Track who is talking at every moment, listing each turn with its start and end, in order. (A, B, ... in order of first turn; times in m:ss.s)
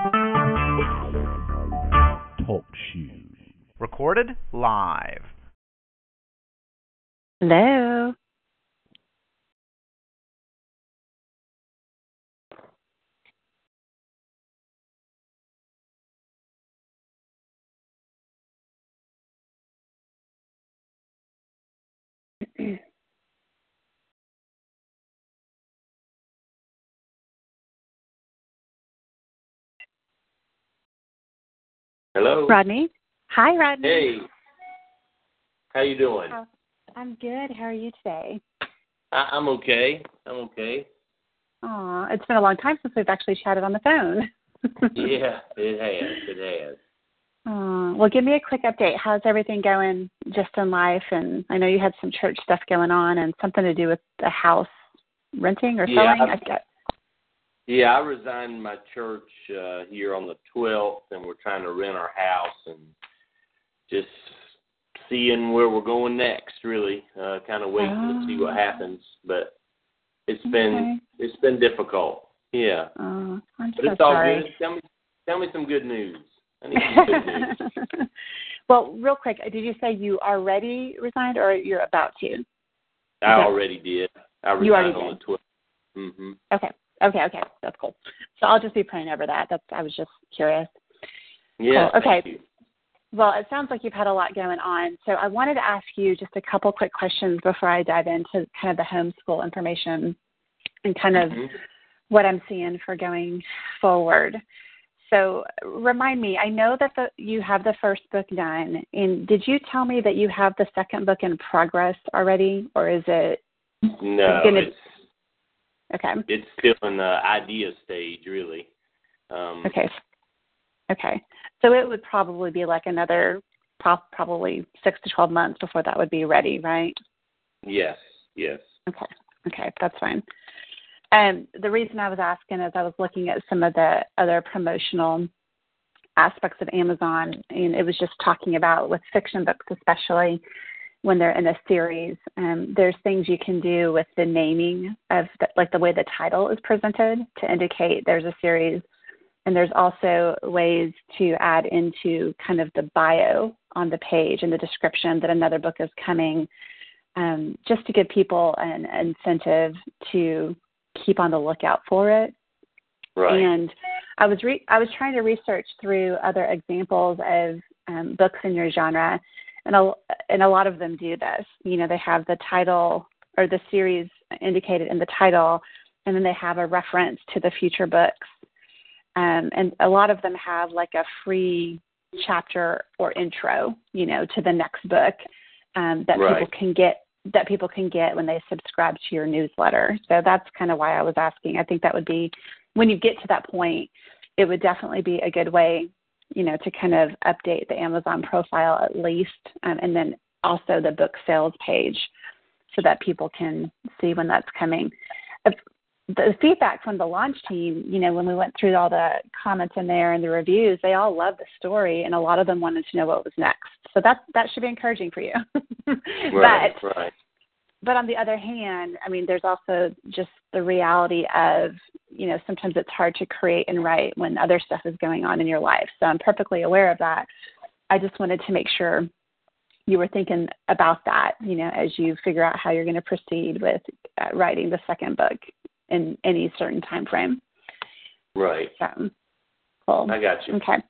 0:02.4-0:05.3 A
0:07.4-0:08.2 B
0:32.2-0:32.6 C
0:32.5-0:34.2 B
0:33.8-0:34.3 C
0:35.7-0:36.4 C
0:36.3-0:38.4 B
0:39.1-0:40.9 C
0:41.6-0:44.3 B
0:44.9-0:46.8 C
0:47.5-0:54.7 B
0:55.4-0:56.6 B
0:55.9-0:56.4 C
0:57.7-1:02.9 C
1:03.9-1:04.4 C
1:05.0-1:09.6 C
1:07.8-1:08.6 B
1:10.3-1:12.9 C
1:10.5-1:11.0 B
1:13.0-1:14.5 B
1:13.8-1:17.6 C
1:16.8-1:17.6 B
1:18.7-1:22.4 B
1:23.2-1:25.4 C
1:24.6-1:25.2 B
1:26.0-1:26.4 C
1:26.5-1:30.7 B
1:31.6-1:32.4 C
1:31.7-1:32.3 B
1:33.1-1:40.2 B
1:40.8-1:41.5 B
1:42.1-1:44.4 B
1:45.1-1:53.4 B
1:53.9-1:54.7 B
1:54.0-1:54.8 C
1:55.9-1:56.2 B
1:56.3-1:58.7 C
1:59.3-1:59.8 C
1:59.6-1:59.9 B
2:00.9-2:07.0 B
2:07.6-2:08.6 C
2:08.9-2:10.2 B
2:11.1-2:15.3 B
2:16.2-2:20.4 B
2:21.0-2:28.8 B
2:29.5-2:36.5 B
2:37.2-2:42.3 B
2:43.2-2:43.5 C
2:43.3-2:58.3 B
2:59.2-3:05.2 B
3:05.8-3:22.1 B
3:06.2-3:06.5 C
3:22.7-3:24.9 B
3:26.1-3:36.8 B
3:36.3-3:37.1 C
3:37.8-3:47.3 B
3:47.9-3:49.1 B
3:49.9-3:57.4 B
3:58.4-3:58.7 C
3:58.8-3:59.1 B
3:59.9-4:00.8 B
4:00.1-4:00.6 C